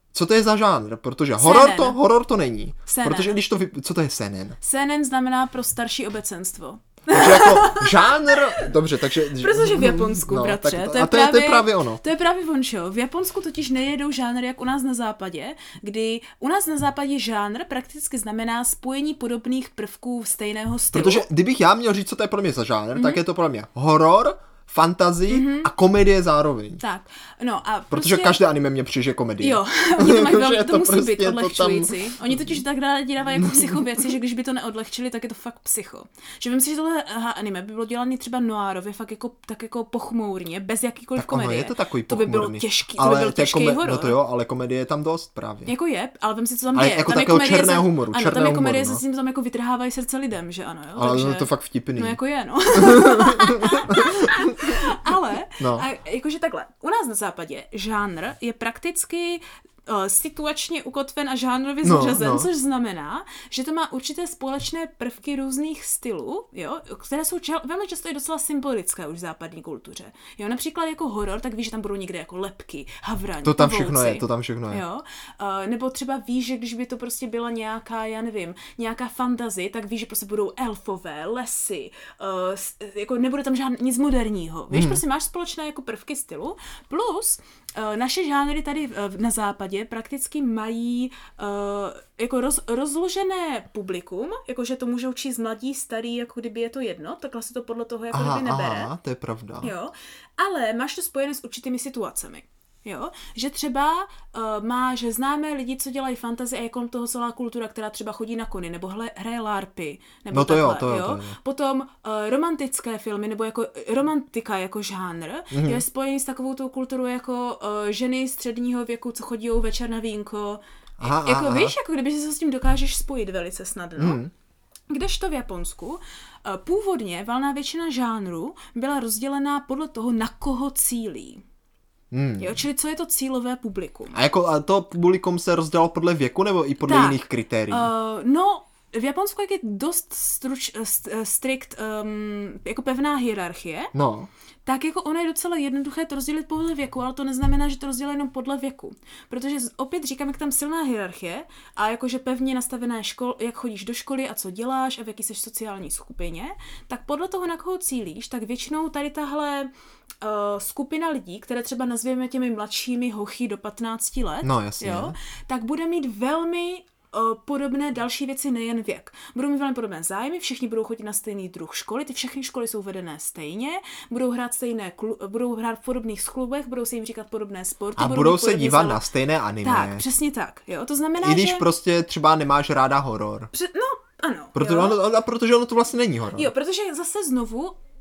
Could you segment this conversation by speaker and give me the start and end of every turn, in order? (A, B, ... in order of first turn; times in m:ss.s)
0:00.1-0:04.6 A
0:01.4-0:02.0 B
0:02.9-0:03.4 B
0:04.6-0:21.3 B
0:07.1-0:12.0 A
0:20.9-0:26.8 A
0:23.0-0:23.2 B
0:25.3-0:25.7 B
0:26.8-0:28.4 B
0:27.9-0:32.6 A
0:29.4-0:44.2 B
0:33.4-0:33.8 A
0:41.2-0:45.7 A
0:45.7-1:38.9 B
0:46.7-0:49.0 A
0:51.0-0:52.2 A
0:52.7-0:54.9 A
0:55.6-0:55.9 A
1:01.8-1:02.5 A
1:13.4-1:14.8 A
1:24.7-1:25.0 A
1:38.1-1:39.7 A
1:39.6-2:04.2 B
1:50.3-1:51.4 A
1:55.5-1:55.8 A
2:01.0-2:01.8 A
2:04.0-2:04.3 A
2:04.9-2:11.4 B
2:12.1-2:12.6 A
2:12.4-2:14.2 B
2:14.1-2:17.9 A
2:16.8-2:23.9 B
2:23.9-2:24.3 A
2:24.7-2:39.7 B
2:40.2-2:59.0 B
2:44.4-2:45.2 A
2:58.0-3:00.0 A
2:59.6-3:01.7 B
3:01.2-3:03.5 A
3:03.5-3:05.0 B
3:04.6-3:06.5 A
3:06.4-3:07.8 B